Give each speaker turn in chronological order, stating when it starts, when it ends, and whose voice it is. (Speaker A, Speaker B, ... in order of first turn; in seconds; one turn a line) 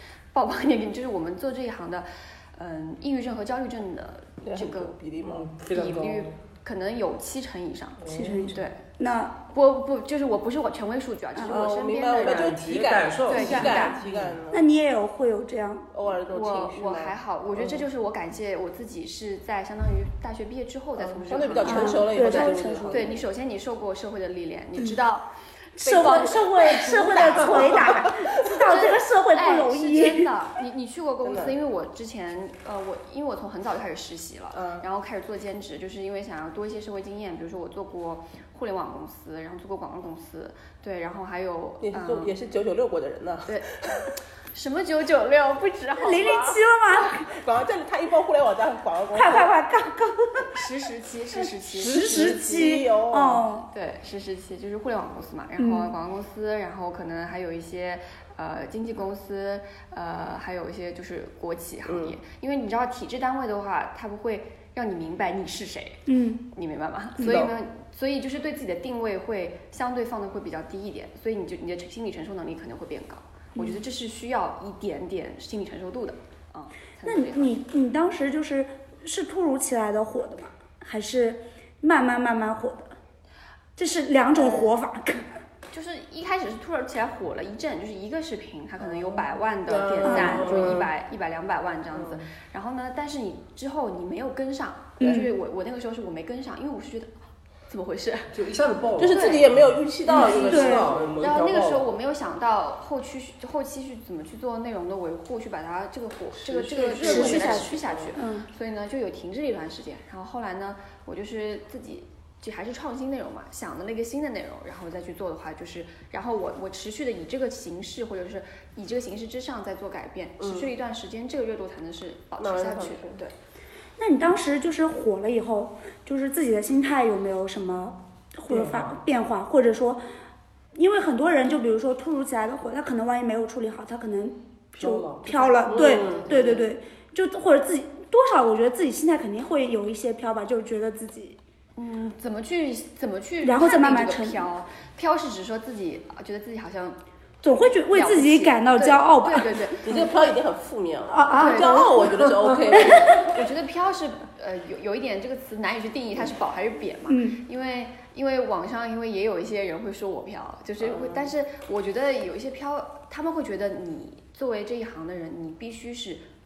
Speaker A: 0.3-4.9
Speaker B: 4.4-5.5
Speaker C: 5.2-6.3
Speaker A: 5.7-8.8
Speaker C: 8.0-8.6
Speaker D: 8.1-9.4
Speaker A: 9.5-12.6
Speaker B: 11.4-14.6
Speaker C: 12.2-14.4
Speaker A: 13.2-14.0
Speaker D: 13.4-13.9
Speaker D: 14.5-15.9
Speaker B: 15.9-17.1
Speaker A: 16.3-25.3
Speaker B: 21.0-23.2
Speaker D: 21.6-23.1
Speaker D: 25.8-30.3
Speaker A: 25.8-27.8
Speaker B: 25.8-28.6
Speaker A: 28.6-42.3
Speaker B: 31.2-31.5
Speaker B: 34.5-34.9
Speaker B: 41.8-44.1
Speaker A: 44.5-46.6
Speaker D: 46.0-47.3
Speaker B: 47.2-49.5
Speaker D: 49.1-50.5
Speaker A: 50.5-52.6
Speaker D: 51.7-53.7
Speaker B: 51.7-53.4
Speaker A: 53.7-77.5
Speaker D: 55.6-55.9
Speaker B: 61.9-62.1
Speaker D: 66.0-66.4
Speaker B: 67.2-67.5
Speaker D: 73.5-73.8
Speaker D: 77.0-82.9
Speaker D: 83.8-85.4
Speaker A: 85.7-97.1
Speaker B: 89.7-90.9
Speaker D: 90.0-90.6
Speaker C: 90.1-90.8
Speaker C: 92.0-92.2
Speaker D: 95.0-95.3
Speaker A: 97.7-98.3
Speaker C: 98.3-101.9
Speaker B: 99.0-101.2
Speaker A: 99.1-99.5
Speaker D: 100.1-100.9
Speaker A: 101.2-123.3
Speaker B: 106.4-108.1
Speaker D: 106.7-108.5
Speaker B: 120.4-120.7
Speaker B: 122.4-123.2
Speaker D: 124.0-130.0
Speaker C: 128.5-129.0
Speaker D: 130.7-141.4
Speaker C: 134.7-135.6
Speaker A: 135.5-136.7
Speaker B: 135.7-136.6
Speaker A: 141.8-147.0
Speaker D: 143.4-144.5
Speaker D: 147.4-149.7
Speaker A: 147.9-150.1
Speaker B: 149.8-153.4
Speaker D: 151.1-153.1
Speaker A: 151.3-152.1
Speaker A: 152.8-166.2
Speaker D: 157.1-157.4
Speaker B: 160.8-161.3